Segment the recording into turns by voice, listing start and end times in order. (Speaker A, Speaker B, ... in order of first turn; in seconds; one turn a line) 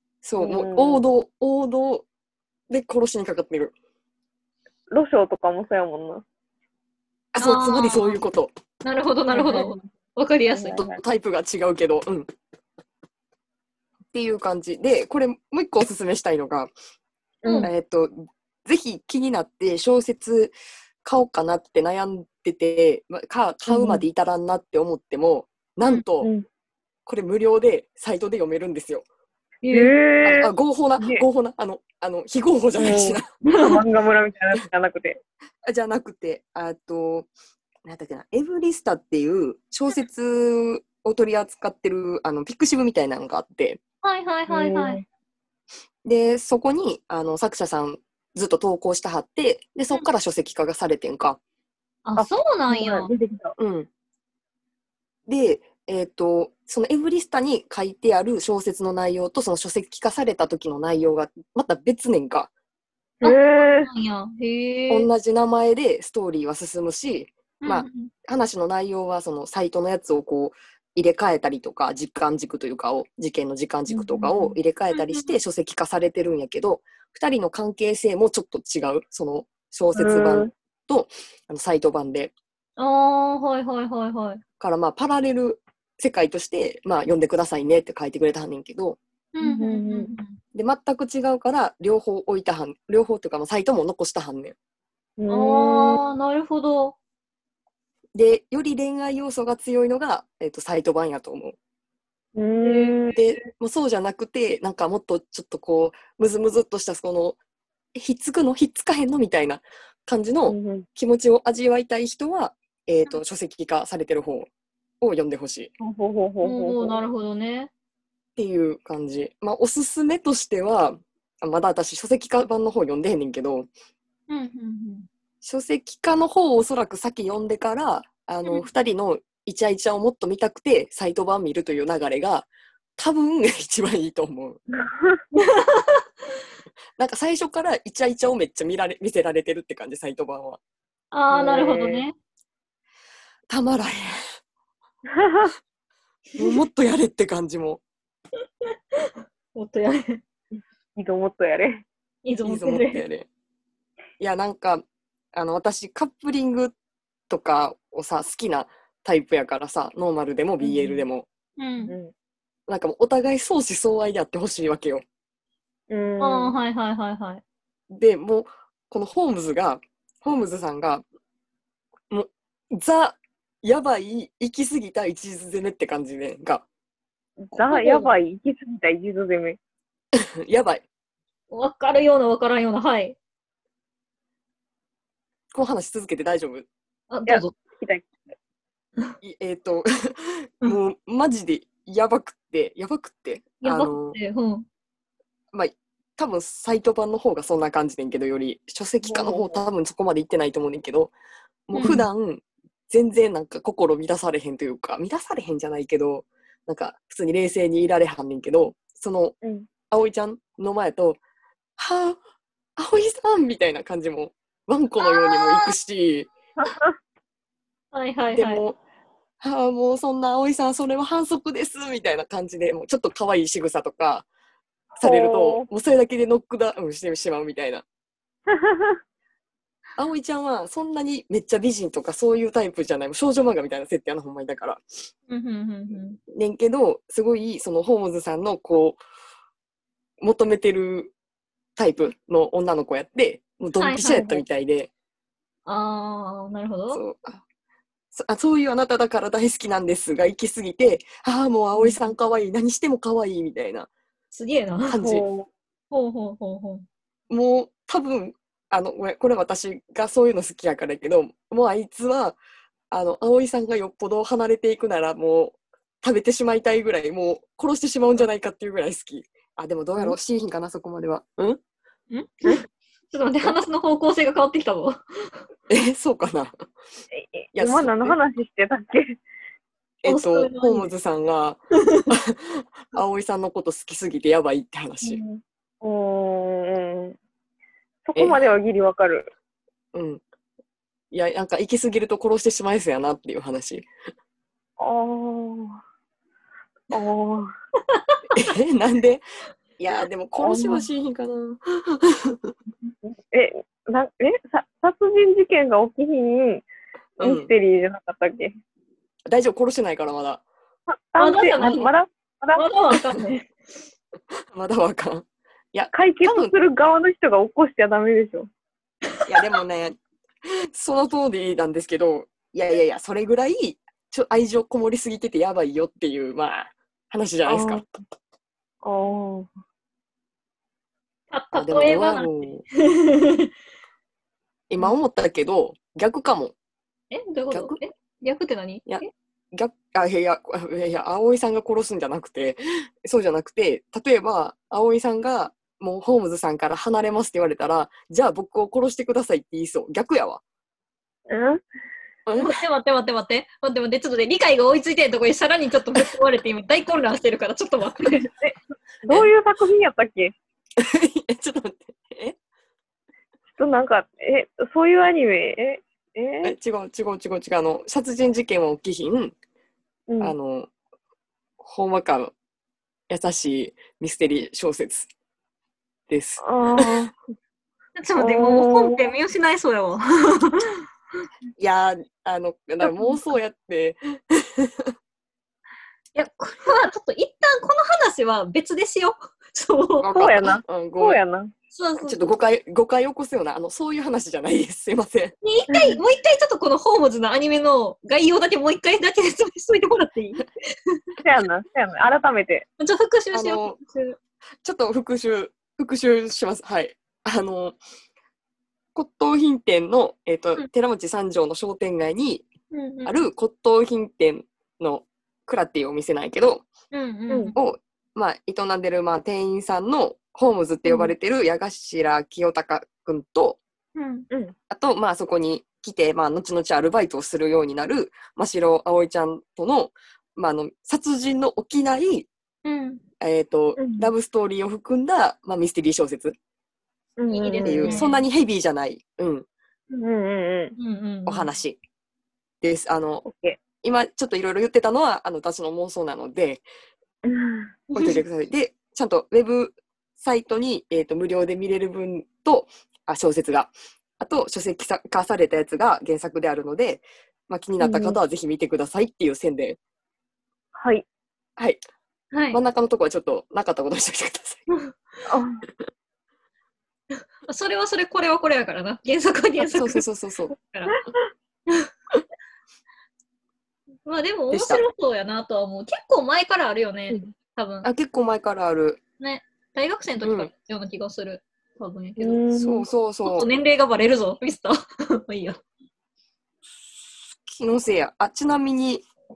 Speaker A: 0.2-2.0
Speaker B: 0.4-1.0
Speaker A: 2.7-3.7
Speaker B: 4.9-6.2
Speaker A: 7.3-8.5
Speaker C: 7.4-8.2
Speaker C: 8.8-10.8
Speaker B: 9.3-9.9
Speaker B: 10.5-11.0
Speaker A: 10.9-12.3
Speaker A: 14.1-16.7
Speaker B: 17.4-17.7
Speaker A: 17.6-20.5
Speaker A: 21.0-26.3
Speaker B: 23.7-24.0
Speaker B: 26.2-26.4
Speaker A: 27.1-29.0
Speaker C: 29.6-29.9
Speaker B: 29.7-31.2
Speaker A: 30.2-33.3
Speaker B: 32.8-35.2
Speaker C: 33.5-33.8
Speaker A: 35.6-37.3
Speaker A: 37.8-43.8
Speaker C: 44.0-45.0
Speaker B: 44.5-45.0
Speaker A: 46.0-51.4
Speaker C: 52.0-53.1
Speaker B: 52.1-53.5
Speaker A: 53.6-53.9
Speaker A: 55.3-62.5
Speaker B: 63.2-63.9
Speaker C: 63.2-65.1
Speaker A: 64.9-82.3
Speaker C: 67.6-68.1
Speaker B: 73.9-74.3
Speaker C: 74.9-75.3
Speaker B: 80.0-80.5
Speaker C: 82.8-84.4
Speaker A: 84.6-89.0
Speaker C: 89.3-90.4
Speaker B: 89.4-90.1
Speaker A: 90.5-94.5
Speaker B: 95.2-96.0
Speaker C: 95.3-97.0
Speaker A: 98.1-101.5
Speaker B: 102.3-103.2
Speaker C: 102.6-103.1
Speaker A: 103.1-107.4
Speaker A: 107.9-114.5
Speaker B: 110.5-110.9
Speaker A: 115.0-115.7
Speaker B: 115.8-117.0
Speaker C: 116.4-117.7
Speaker A: 118.4-123.7
Speaker C: 124.3-125.1
Speaker A: 125.4-134.6
Speaker B: 134.7-135.2
Speaker C: 135.3-136.0
Speaker A: 137.0-140.6
Speaker C: 141.1-142.1
Speaker B: 141.3-142.0
Speaker A: 143.5-144.2
Speaker B: 145.1-145.5
Speaker A: 146.4-147.8
Speaker C: 148.9-150.2
Speaker B: 150.9-151.8
Speaker C: 152.2-153.0
Speaker A: 152.4-153.3
Speaker A: 154.2-156.7
Speaker A: 157.3-161.3
Speaker B: 160.6-161.0
Speaker C: 161.6-161.9
Speaker B: 161.9-162.1
Speaker A: 162.7-165.0
Speaker B: 165.9-166.5
Speaker C: 166.2-167.4
Speaker A: 167.9-171.0
Speaker A: 172.1-176.6
Speaker B: 177.4-179.6
Speaker A: 177.5-177.9
Speaker A: 180.2-180.8
Speaker C: 181.5-183.2
Speaker A: 185.5-186.7
Speaker C: 187.1-187.5
Speaker B: 187.3-188.2
Speaker A: 189.2-194.2
Speaker C: 193.6-194.7
Speaker A: 195.5-201.1
Speaker B: 199.0-199.6
Speaker A: 201.7-209.3
Speaker C: 201.7-202.1
Speaker B: 209.4-209.7
Speaker A: 209.9-211.2
Speaker A: 211.8-212.2
Speaker A: 212.8-216.3
Speaker C: 215.0-215.7
Speaker B: 216.6-216.9
Speaker C: 217.9-218.6
Speaker A: 218.3-218.8
Speaker A: 219.4-224.2
Speaker B: 225.0-225.7
Speaker A: 225.0-227.8
Speaker B: 228.5-229.0
Speaker A: 230.0-234.8
Speaker C: 235.3-236.2
Speaker A: 236.3-239.0
Speaker A: 240.2-241.1
Speaker A: 241.8-244.9
Speaker C: 243.8-244.4
Speaker C: 245.7-247.0
Speaker A: 246.9-247.4
Speaker A: 248.1-253.9
Speaker C: 254.3-255.0
Speaker A: 254.8-255.2
Speaker B: 255.0-255.5
Speaker C: 255.9-256.9
Speaker A: 257.3-262.4
Speaker A: 262.9-271.6
Speaker C: 272.1-275.3
Speaker A: 275.7-276.6
Speaker B: 277.1-279.2
Speaker A: 277.5-278.2
Speaker A: 280.0-285.2
Speaker C: 280.1-280.9
Speaker B: 285.0-287.2
Speaker B: 288.1-289.3
Speaker A: 289.9-290.2
Speaker A: 291.1-293.9
Speaker B: 294.8-295.8
Speaker B: 296.9-297.5
Speaker C: 297.9-298.2
Speaker A: 298.3-299.2
Speaker A: 299.8-302.5
Speaker B: 300.4-300.9
Speaker B: 303.0-306.6
Speaker A: 307.2-307.5
Speaker B: 307.2-308.5
Speaker A: 309.3-310.4
Speaker B: 310.9-312.7
Speaker C: 311.2-311.9
Speaker C: 312.5-313.6
Speaker A: 314.5-316.5
Speaker B: 315.9-318.5
Speaker A: 319.3-328.0
Speaker B: 327.4-327.8
Speaker B: 328.8-329.5
Speaker C: 331.3-333.5
Speaker A: 331.5-332.6
Speaker A: 334.7-336.5
Speaker C: 337.1-339.1
Speaker A: 337.5-337.8
Speaker A: 338.9-350.4
Speaker B: 351.3-351.6
Speaker A: 352.2-352.6
Speaker C: 352.4-358.3
Speaker B: 358.4-360.3
Speaker A: 360.8-362.4
Speaker B: 363.6-366.5
Speaker A: 366.4-369.3
Speaker B: 370.1-370.3
Speaker A: 370.2-370.7
Speaker A: 371.6-372.3
Speaker A: 373.1-375.1
Speaker A: 376.1-377.1
Speaker B: 376.4-377.1
Speaker C: 378.0-380.8
Speaker B: 378.2-379.1
Speaker A: 381.6-384.9
Speaker C: 386.1-390.2
Speaker A: 390.0-391.2
Speaker B: 390.1-391.5
Speaker C: 391.7-392.2
Speaker A: 392.0-395.3
Speaker C: 395.4-401.0
Speaker B: 395.7-396.0
Speaker B: 401.2-402.6
Speaker C: 402.8-404.2
Speaker A: 403.3-403.8
Speaker A: 404.6-407.8
Speaker A: 408.9-412.5
Speaker C: 412.7-413.2
Speaker A: 413.0-416.7
Speaker C: 416.9-417.6
Speaker B: 417.3-417.6
Speaker A: 417.6-423.6
Speaker C: 423.9-424.3
Speaker B: 424.3-424.6
Speaker A: 424.7-432.3
Speaker C: 432.6-433.0
Speaker A: 433.2-436.4
Speaker B: 433.8-434.1
Speaker B: 437.2-438.1
Speaker C: 437.3-438.2
Speaker A: 437.6-439.4
Speaker B: 439.9-440.8
Speaker C: 440.8-441.5
Speaker A: 441.2-441.8
Speaker A: 442.6-443.2
Speaker B: 443.2-443.6
Speaker A: 443.8-446.6
Speaker B: 447.2-448.1
Speaker C: 447.9-448.2
Speaker A: 447.9-459.8
Speaker B: 457.8-458.2
Speaker B: 460.7-461.0
Speaker C: 462.3-462.6
Speaker A: 462.5-464.7
Speaker B: 465.2-465.6
Speaker C: 467.5-470.0
Speaker A: 469.6-470.5
Speaker C: 470.6-470.9
Speaker C: 474.1-477.9
Speaker A: 474.5-474.8
Speaker A: 477.8-479.0
Speaker C: 479.2-482.4
Speaker A: 480.2-480.5
Speaker B: 482.2-482.9
Speaker A: 482.5-483.5
Speaker C: 483.2-485.6
Speaker A: 487.4-489.1